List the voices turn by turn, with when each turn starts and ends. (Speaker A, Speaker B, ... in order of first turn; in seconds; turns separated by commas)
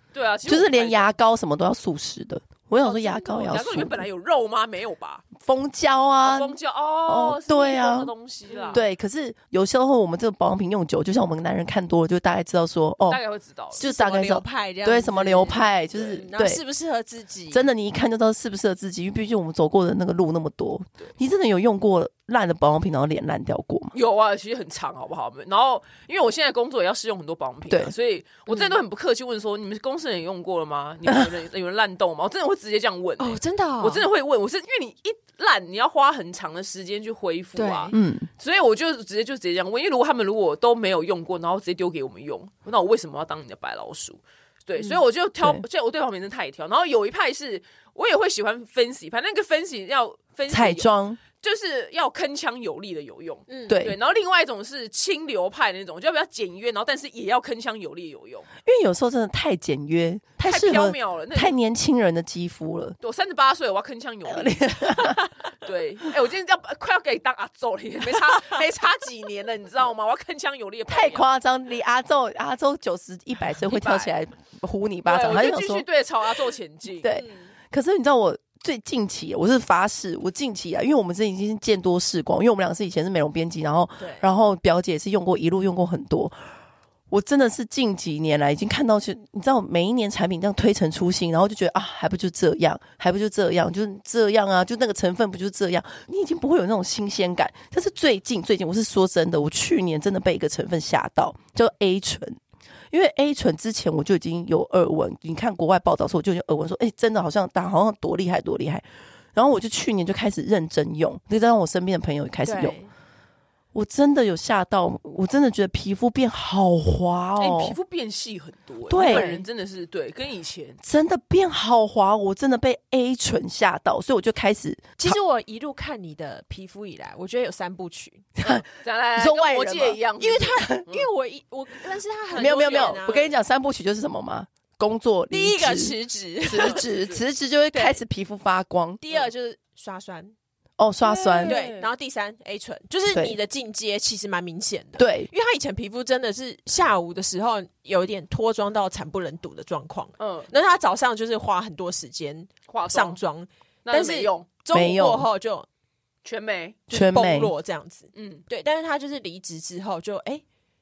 Speaker A: 0.1-1.1, Speaker B: 0.4-4.1, Speaker A: 2.8-5.3, Speaker B: 5.4-8.1, Speaker A: 6.2-8.8, Speaker C: 8.5-8.8, Speaker B: 8.7-13.2, Speaker A: 13.1-13.8, Speaker B: 13.8-16.6, Speaker C: 13.8-17.6, Speaker A: 15.9-16.2, Speaker B: 17.5-23.9, Speaker A: 23.9-58.5, Speaker B: 27.7-27.9, Speaker C: 28.5-28.8, Speaker C: 33.2-34.0, Speaker C: 37.5-38.0, Speaker B: 37.9-38.3, Speaker B: 50.5-51.2, Speaker C: 53.5-53.8, Speaker B: 53.7-54.0, Speaker B: 58.6-63.0, Speaker A: 60.4-61.5, Speaker A: 63.0-71.2, Speaker B: 64.2-65.3, Speaker B: 70.9-75.8, Speaker A: 73.6-74.1, Speaker A: 75.0-77.1, Speaker B: 77.0-86.3, Speaker C: 77.1-77.5, Speaker C: 84.0-84.3, Speaker B: 87.1-102.4, Speaker B: 102.9-112.8, Speaker C: 112.4-112.9, Speaker B: 113.7-117.8, Speaker A: 117.4-120.8, Speaker B: 118.9-119.3, Speaker C: 119.0-119.5, Speaker B: 120.8-125.2, Speaker C: 125.0-128.3, Speaker B: 128.4-128.6, Speaker A: 128.5-131.1, Speaker B: 129.2-130.0, Speaker C: 130.2-133.3, Speaker A: 132.3-133.3, Speaker B: 132.3-139.0, Speaker C: 135.3-136.9, Speaker A: 136.5-137.2, Speaker C: 137.7-138.0, Speaker C: 139.0-140.3, Speaker B: 140.8-141.6, Speaker A: 141.0-141.9, Speaker C: 141.4-155.7, Speaker B: 145.0-145.3, Speaker A: 150.2-150.5, Speaker A: 152.7-153.2, Speaker A: 153.8-154.5, Speaker B: 154.7-155.3, Speaker A: 156.2-156.8, Speaker B: 156.9-157.5, Speaker C: 156.9-160.4, Speaker A: 158.1-158.4